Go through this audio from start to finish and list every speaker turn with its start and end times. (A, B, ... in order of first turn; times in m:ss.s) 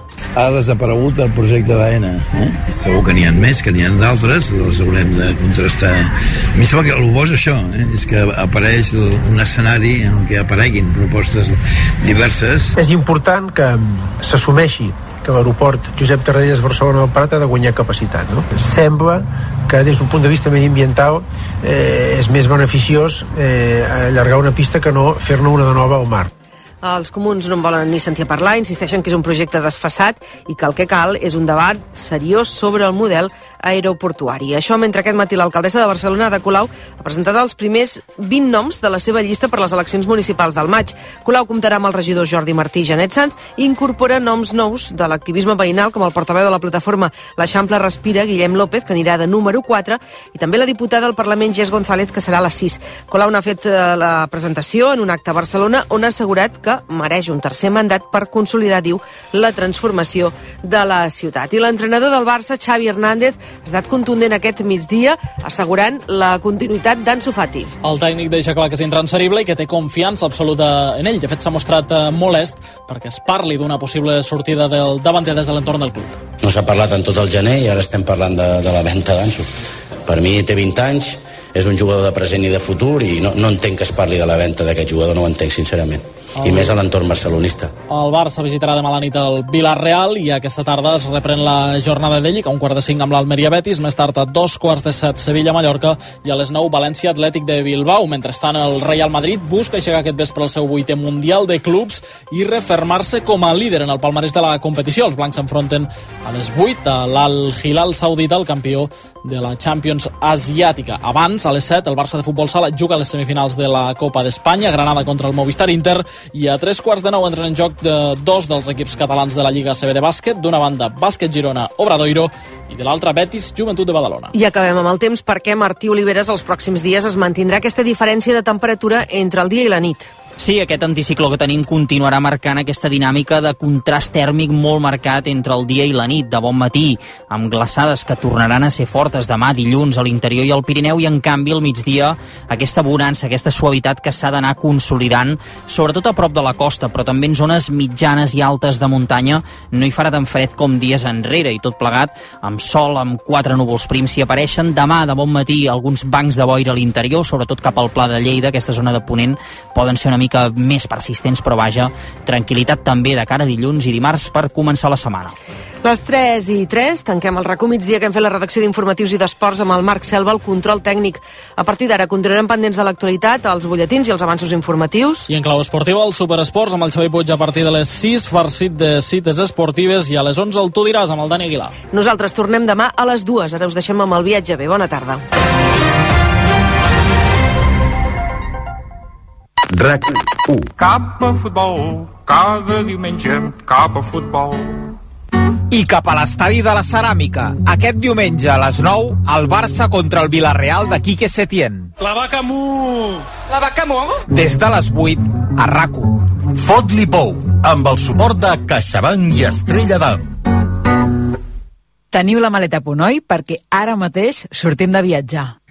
0:00.4-0:12.8 A
0:12.8-0:26.3 B
0:26.8-1:07.7 C
1:07.8-1:16.1 D
1:16.4-1:19.5 E
1:20.1-1:27.7 E
1:26.4-1:26.8 D
1:27.9-2:04.3 D
2:04.3-2:10.1 C
2:10.4-2:45.3 F
2:45.8-2:55.3 C
2:55.3-3:01.7 D
3:01.9-3:05.2 C
3:09.7-3:10.7 G
3:10.8-3:14.9 H
3:15.7-3:21.9 I
3:22.3-3:23.1 H
3:24.3-3:26.2 I
3:26.5-3:30.4 G
3:32.1-3:35.6 J